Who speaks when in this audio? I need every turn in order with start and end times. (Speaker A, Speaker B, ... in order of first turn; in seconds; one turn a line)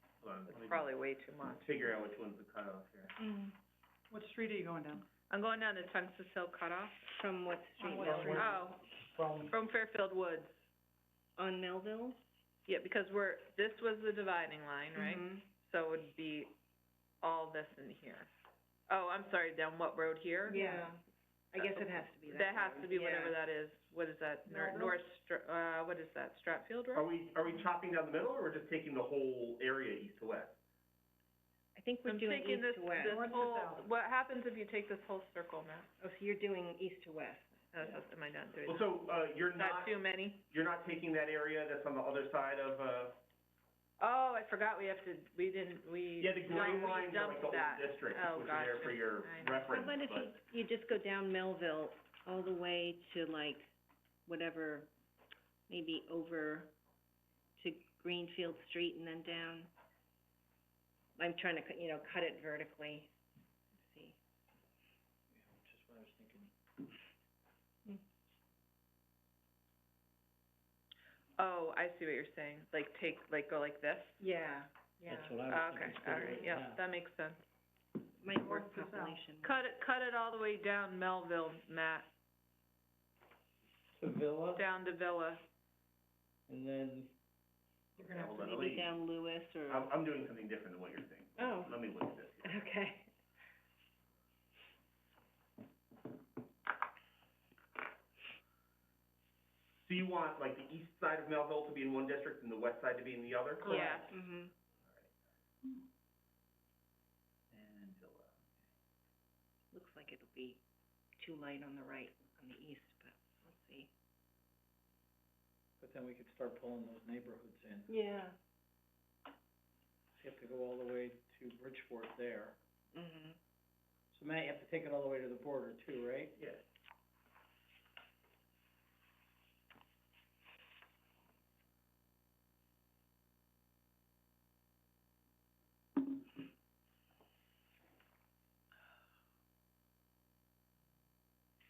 Speaker A: 0.2-0.9
Speaker B: 0.5-1.9
Speaker A: 1.6-3.1
Speaker C: 3.2-3.6
Speaker D: 4.1-5.0
Speaker B: 5.3-7.0
Speaker C: 7.1-8.5
Speaker D: 7.8-8.6
Speaker E: 8.1-8.3
Speaker B: 8.2-8.8
Speaker D: 9.1-9.5
Speaker B: 9.5-10.5
Speaker C: 11.4-12.2
Speaker B: 12.7-16.5
Speaker C: 14.9-15.4
Speaker B: 17.2-18.3
Speaker B: 18.9-20.7
Speaker C: 20.5-23.4
Speaker A: 21.6-21.9
Speaker B: 22.2-27.1
Speaker D: 24.5-25.0
Speaker A: 26.9-30.6
Speaker C: 31.8-33.2
Speaker B: 32.0-35.9
Speaker D: 33.0-33.9
Speaker C: 36.0-37.9
Speaker B: 37.7-39.0
Speaker A: 38.6-40.0
Speaker B: 39.5-40.4
Speaker A: 40.5-43.2
Speaker B: 44.0-49.9
Speaker A: 46.2-50.4
Speaker C: 49.7-53.7
Speaker C: 54.3-54.9
Speaker C: 55.7-56.7
Speaker C: 57.6-59.7
Speaker C: 61.2-63.1
Speaker C: 63.8-64.2
Speaker E: 65.3-66.5
Speaker B: 71.4-74.2
Speaker C: 74.2-75.4
Speaker E: 75.1-76.8
Speaker B: 75.5-77.4
Speaker C: 78.1-79.6
Speaker D: 78.3-79.2
Speaker B: 79.4-82.1
Speaker E: 84.0-84.6
Speaker B: 84.5-85.4
Speaker E: 86.5-87.1
Speaker D: 88.0-88.5
Speaker A: 88.0-89.0
Speaker C: 88.4-89.9
Speaker A: 89.7-92.6
Speaker C: 91.4-91.8
Speaker C: 92.4-93.1
Speaker A: 99.8-104.0
Speaker B: 103.6-104.1
Speaker C: 103.7-104.5
Speaker A: 104.8-105.1
Speaker A: 107.5-108.5
Speaker C: 109.7-110.6
Speaker C: 111.2-113.9
Speaker E: 115.8-117.9
Speaker C: 117.9-118.4
Speaker E: 120.2-122.6
Speaker C: 122.9-123.4
Speaker E: 124.1-126.4
Speaker A: 126.4-126.6